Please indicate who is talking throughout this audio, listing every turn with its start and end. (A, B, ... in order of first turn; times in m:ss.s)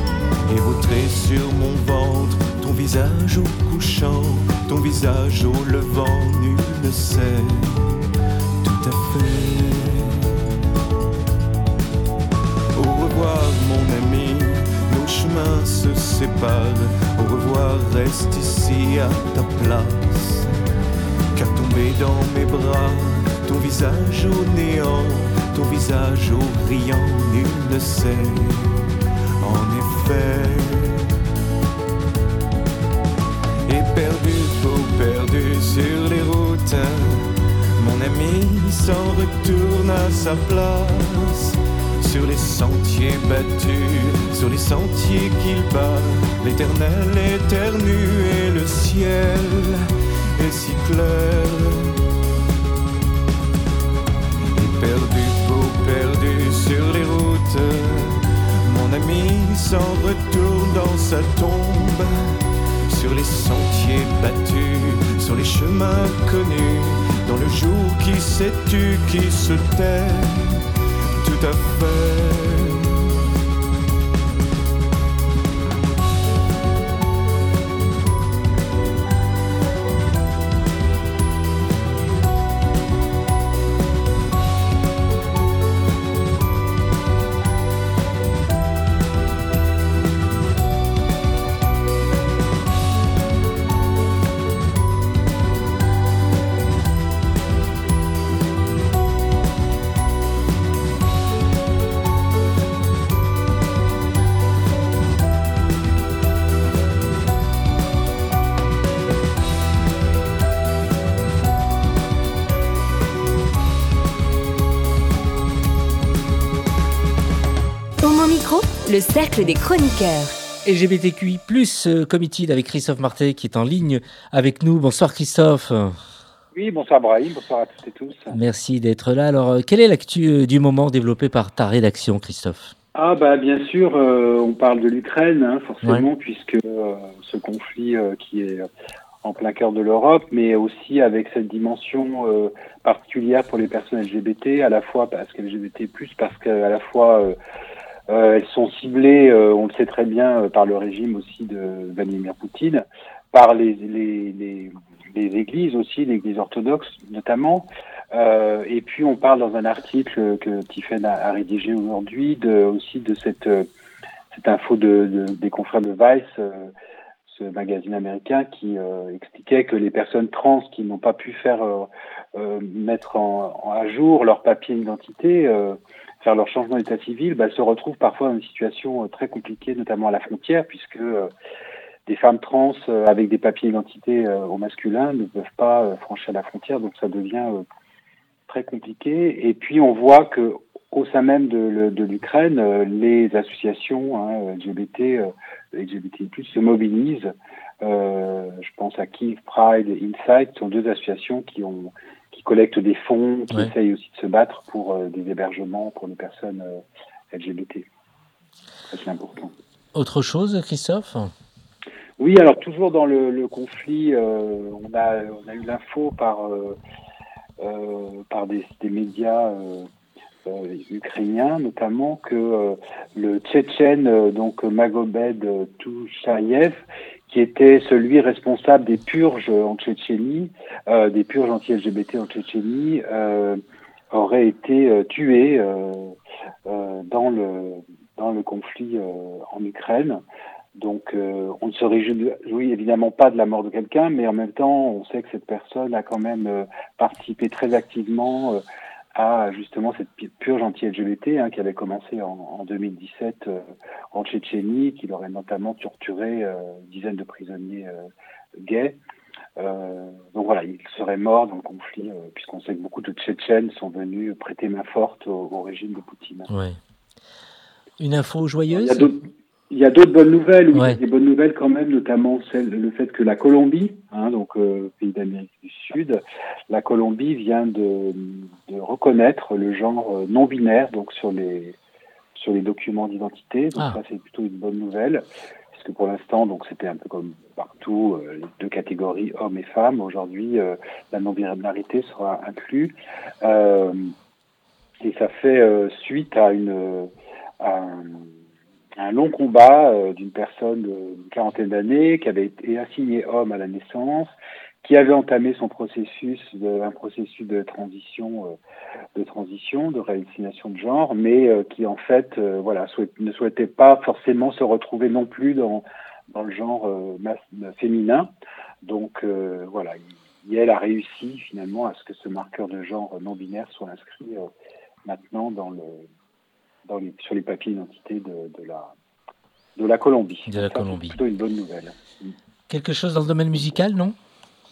0:00.4-0:08.0 A
0:08.6-0:10.5 A
0:12.7-0:20.5 A
0:21.3-0:28.8 A
0:29.4-0:31.1 A
0:33.7-0:52.0 A
0:54.5-1:10.6 A
1:11.2-1:13.1 A
1:58.0-2:00.4 B
2:00.6-2:06.0 C
2:06.5-2:08.4 D
2:08.3-2:12.8 C
2:13.0-2:18.7 D
2:15.8-2:16.1 C
2:19.2-2:27.4 D
2:28.1-2:43.7 D
2:44.3-2:46.7 D
2:47.3-3:01.3 D
3:02.1-3:07.6 D
3:08.5-3:26.8 D
3:27.3-3:27.9 D
3:28.9-3:29.5 D
3:29.9-3:31.3 C
3:32.2-3:36.8 D
3:37.6-3:39.9 D
3:40.5-3:53.6 D
3:54.1-3:56.2 D
3:56.7-4:00.2 D
4:00.8-4:08.6 D
4:09.2-4:13.6 D
4:14.1-4:19.0 D
4:19.6-4:26.5 D
4:26.5-4:26.8 C
4:28.0-4:29.2 C
4:28.7-4:41.8 D
4:30.7-4:31.0 C
4:42.4-4:54.1 D
4:55.0-4:57.1 D
4:57.6-4:58.3 D
4:59.0-5:04.3 D
5:04.8-5:08.6 D
5:09.2-5:18.3 D
5:18.8-5:24.5 D
5:25.1-5:26.1 D
5:26.9-5:28.9 D
5:29.8-5:32.0 D
5:30.5-5:31.2 C
5:32.7-5:34.2 C